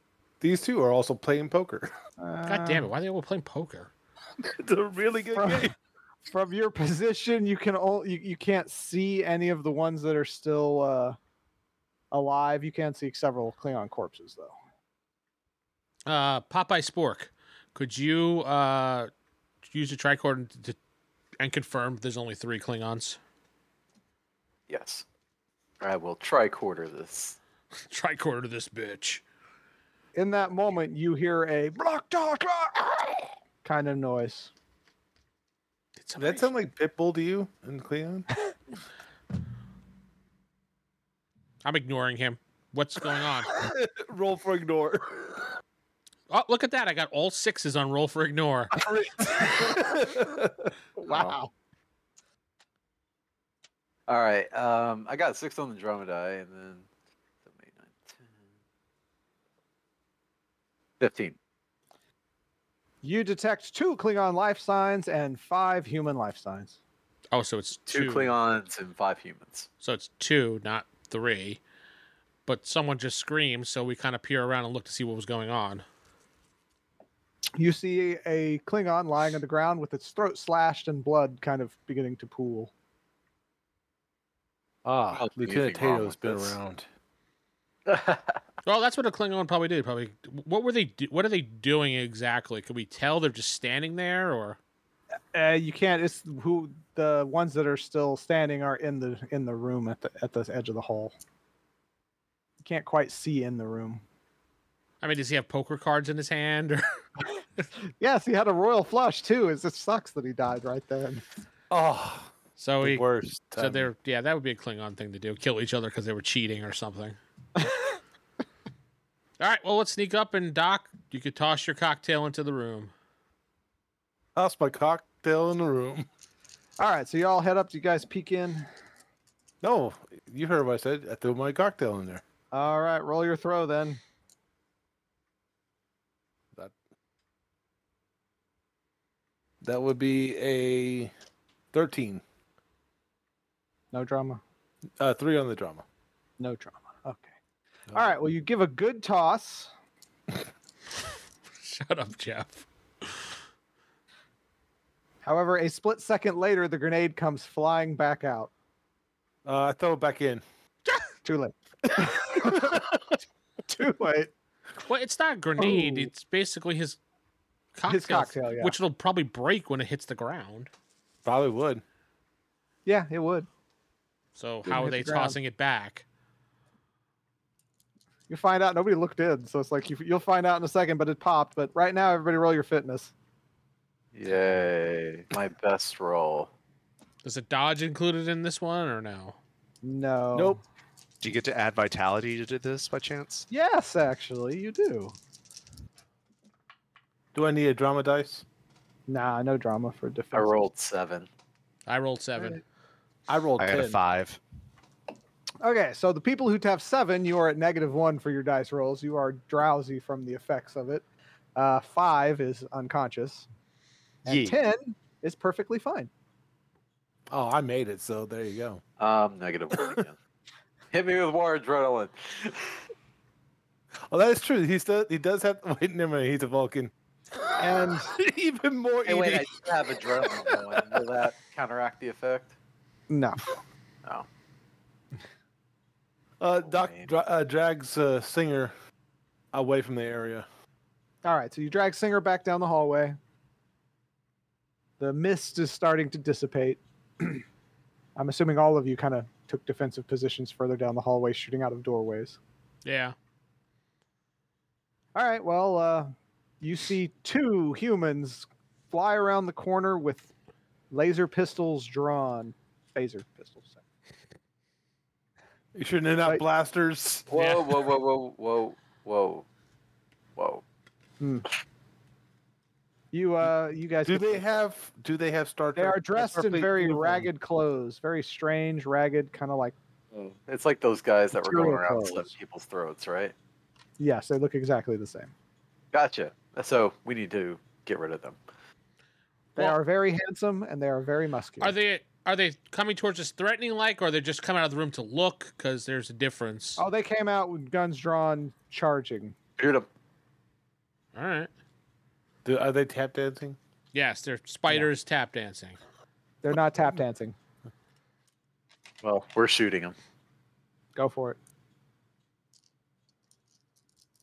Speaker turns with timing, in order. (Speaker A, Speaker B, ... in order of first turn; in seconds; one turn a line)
Speaker A: 0.4-1.9
Speaker B: 2.2-2.9
Speaker C: 2.5-3.9
Speaker A: 4.5-5.7
Speaker B: 5.3-5.7
Speaker B: 6.3-11.2
Speaker B: 12.1-14.5
Speaker C: 16.1-19.1
Speaker C: 19.6-20.8
Speaker C: 21.4-23.2
Speaker D: 24.7-25.0
Speaker D: 25.8-27.4
Speaker C: 27.8-29.2
Speaker B: 30.1-34.5
Speaker C: 36.0-36.5
Speaker A: 36.2-38.3
Speaker C: 41.6-43.5
Speaker A: 43.5-45.5
Speaker C: 46.3-48.7
Speaker A: 48.8-50.7
Speaker B: 51.0-51.5
Speaker D: 54.1-56.9
Speaker D: 57.5-58.2
Speaker D: 61.0-61.4
Speaker B: 63.0-66.8
Speaker C: 67.3-68.3
Speaker D: 67.9-69.7
Speaker C: 69.8-71.6
Speaker C: 72.5-75.8
Speaker B: 77.6-82.7
Speaker A: 84.8-86.8
Speaker D: 85.1-86.6
Speaker D: 87.8-88.4
Speaker C: 88.6-94.6
Speaker B: 95.3-101.1
Speaker B: 102.6-104.0
Speaker C: 105.0-106.8
Speaker B: 108.0-111.2
Speaker A: 111.7-113.9
Speaker C: 112.6-113.0
Speaker C: 113.5-117.2
Speaker C: 119.4-122.9
Speaker A: 124.3-126.0
Speaker B: 126.8-128.7
Speaker A: 129.6-132.2
Speaker B: 132.5-134.0
Speaker A: 139.6-141.1
Speaker A: 141.7-142.2
Speaker B: 143.9-144.4
Speaker A: 145.0-145.8
Speaker B: 146.4-147.3
Speaker B: 147.9-149.7
Speaker C: 151.6-152.7
Speaker B: 155.2-158.5
Speaker A: 159.4-160.4
Speaker B: 161.2-162.9
Speaker B: 163.7-164.3
Speaker C: 164.8-167.0
Speaker B: 165.6-166.1
Speaker C: 167.7-170.7
Speaker B: 167.8-168.8
Speaker A: 171.2-171.8
Speaker B: 172.8-173.5
Speaker C: 174.3-176.0
Speaker B: 174.7-175.4
Speaker B: 178.3-183.1
Speaker D: 184.1-186.5
Speaker C: 187.2-189.4
Speaker B: 189.8-190.6
Speaker E: 191.2-193.5
Speaker B: 193.5-195.1
Speaker A: 197.3-198.4
Speaker B: 199.1-200.6
Speaker D: 200.3-201.3
Speaker C: 201.8-202.6
Speaker A: 203.3-204.0
Speaker E: 203.6-204.4
Speaker B: 205.6-211.0
Speaker B: 211.6-213.5
Speaker B: 214.2-216.1
Speaker E: 214.2-214.6
Speaker A: 217.3-218.8
Speaker D: 219.0-220.2
Speaker D: 220.9-222.7
Speaker A: 224.1-231.0
Speaker B: 227.6-228.1
Speaker D: 229.0-232.5
Speaker B: 233.1-233.5
Speaker A: 236.4-238.7
Speaker D: 236.6-237.1
Speaker A: 239.5-240.4
Speaker B: 241.2-243.2
Speaker B: 245.0-247.4
Speaker B: 248.2-252.4
Speaker C: 252.8-253.1
Speaker B: 255.1-260.3
Speaker B: 260.9-263.8
Speaker A: 265.7-267.4
Speaker D: 267.3-269.4
Speaker D: 270.4-270.6
Speaker B: 271.2-271.5
Speaker B: 273.1-274.4
Speaker A: 274.1-277.3
Speaker B: 275.8-279.7
Speaker D: 280.1-283.3
Speaker B: 281.3-282.3
Speaker B: 284.0-285.3
Speaker D: 285.9-288.4
Speaker B: 289.6-291.7
Speaker C: 291.6-296.8
Speaker B: 296.8-299.3
Speaker D: 299.6-299.9
Speaker C: 301.1-301.5
Speaker A: 302.4-303.6
Speaker C: 303.9-305.8
Speaker B: 306.4-307.3
Speaker D: 309.0-309.9
Speaker B: 310.9-311.4